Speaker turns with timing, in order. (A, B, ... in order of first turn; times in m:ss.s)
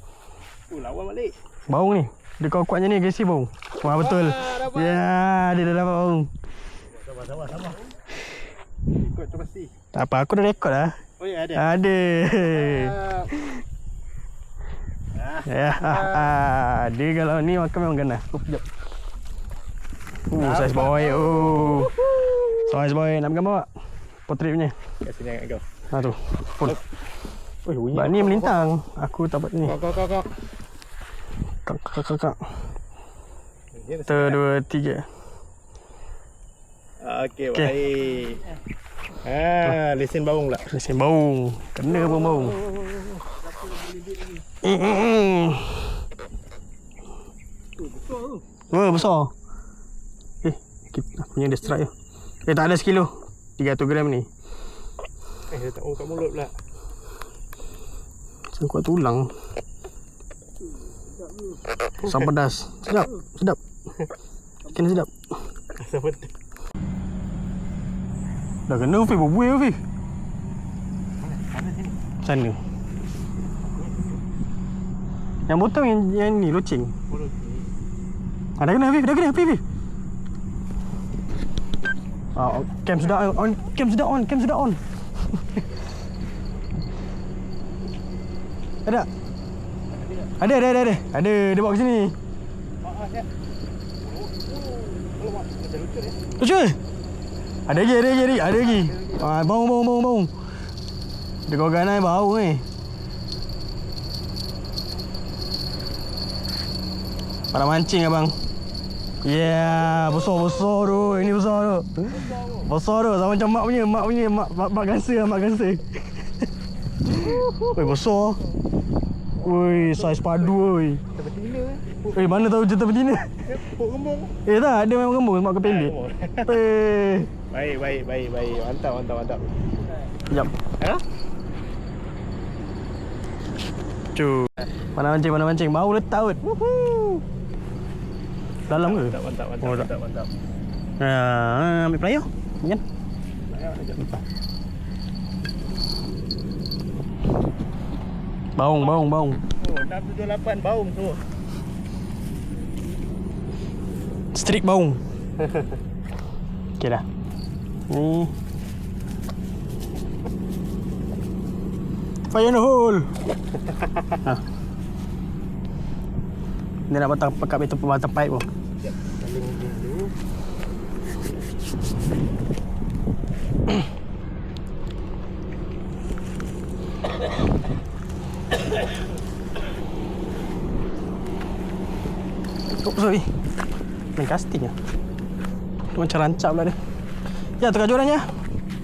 0:00.7-0:01.4 A
0:01.7-0:06.3 B
0:03.8-0:05.0 A
0:07.2-0:07.8 A
0:08.9-0:09.7 A
0:09.9-0:11.0 B
0:11.2-0:11.6 A
0:11.5-0:13.6 B
0:12.3-0:13.3 A
0:15.3-0:16.2 A
0:15.4-0:18.6 B
0:20.3-0:23.7 B
0:20.4-0:22.5 A
0:24.3-0:24.8 B
0:25.0-0:25.6 A
0:25.9-0:26.8 B
0:27.6-0:29.8 B
0:27.9-0:28.7 A
0:29.6-0:30.3 A
0:31.6-0:32.4 B
0:33.7-0:34.4 A
0:34.1-0:35.1 B
0:37.0-0:38.5 A
0:39.2-0:40.7 A
0:40.7-0:42.7 B
0:42.1-0:43.2 A
0:44.6-0:46.0 B
0:48.7-0:49.3 B
0:50.4-0:51.9 B
0:52.4-0:54.3 B
0:55.5-0:56.5 A
0:58.5-0:59.3 B
1:02.0-1:03.6 B
1:04.7-1:05.1 B
1:05.8-1:06.3 A
1:08.7-1:09.8 B
1:11.3-1:11.9 A
1:12.2-1:12.6 B
1:15.5-1:16.9 B
1:17.2-1:17.6 A
1:18.6-1:19.6 B
1:22.3-1:24.8 B
1:30.0-1:30.3 A
1:30.4-1:32.2 B
1:32.8-1:33.3 A
1:34.0-1:36.2 A
1:36.4-1:36.8 B
1:37.7-1:40.3 B
1:38.6-1:39.2 A
1:41.5-1:42.6 B
1:47.5-1:48.4 B
1:49.2-1:56.3 B
1:52.1-1:52.5 A
1:57.1-1:58.4 B
1:57.3-1:57.8 A
1:59.4-2:01.0 B
1:59.5-2:00.3 A
2:01.1-2:02.2 A
2:02.1-2:03.4 B
2:03.5-2:04.4 A
2:04.4-2:07.3 B
2:05.6-2:06.6 A
2:07.5-2:09.6 A
2:14.1-2:16.5 B
2:16.5-2:17.2 A
2:18.7-2:19.9 B
2:18.7-2:20.3 A
2:21.0-2:22.8 B
2:23.5-2:24.1 A
2:28.6-2:29.4 B
2:29.6-2:31.2 A
2:34.3-2:35.0 B
2:36.8-2:37.0 B
2:37.9-2:38.3 B
2:42.3-2:43.1 B
2:46.9-2:48.5 B
2:49.0-2:50.1 A
3:02.7-3:03.3 B
3:04.2-3:04.7 B
3:05.9-3:06.8 B
3:07.6-3:08.3 B